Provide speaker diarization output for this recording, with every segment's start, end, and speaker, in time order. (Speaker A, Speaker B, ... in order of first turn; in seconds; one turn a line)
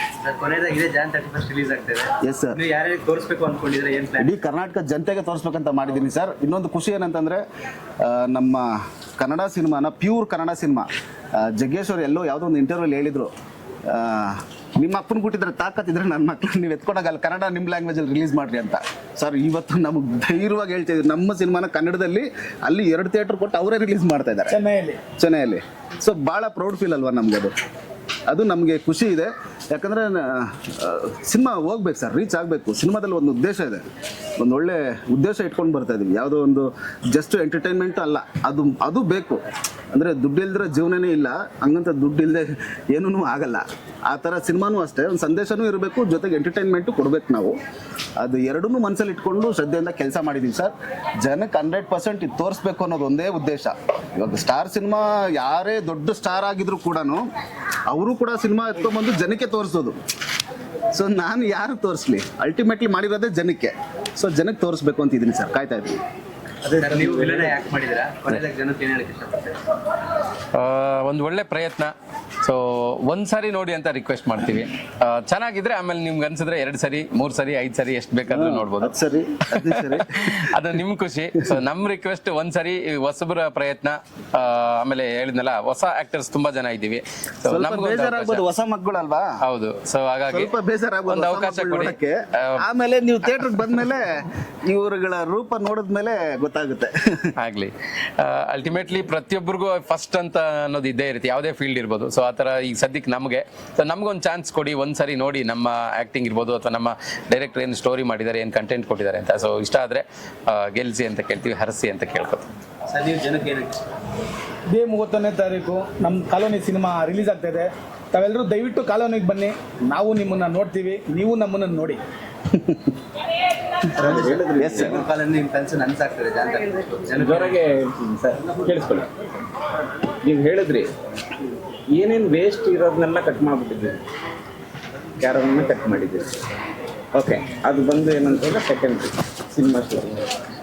Speaker A: 0.2-4.4
Speaker B: 2.2-2.6
Speaker B: 4.2-7.4
Speaker B: 8.0-13.3
Speaker B: 13.9-24.6
Speaker C: 24.5-25.0
Speaker B: 25.2-27.6
Speaker B: 28.3-33.8
Speaker B: 34.4-39.4
Speaker B: 39.9-47.6
Speaker B: 48.2-57.2
Speaker B: 57.9-60.0
Speaker B: 60.9-66.0
Speaker A: 66.7-69.6
Speaker D: 66.8-67.6
Speaker E: 70.5-79.0
Speaker B: 78.3-80.5
Speaker E: 79.5-88.4
Speaker B: 87.5-89.4
Speaker E: 89.4-90.5
Speaker B: 90.3-97.3
Speaker E: 91.1-92.7
Speaker E: 97.4-112.5
Speaker A: 112.9-113.8
Speaker C: 114.7-122.0
Speaker B: 122.5-122.9
Speaker D: 124.0-125.0
Speaker A: 124.0-127.6
Speaker B: 124.6-125.0
Speaker D: 127.2-129.1
Speaker D: 130.2-130.9
Speaker D: 131.9-134.0
Speaker D: 135.2-136.3
Speaker D: 137.1-140.3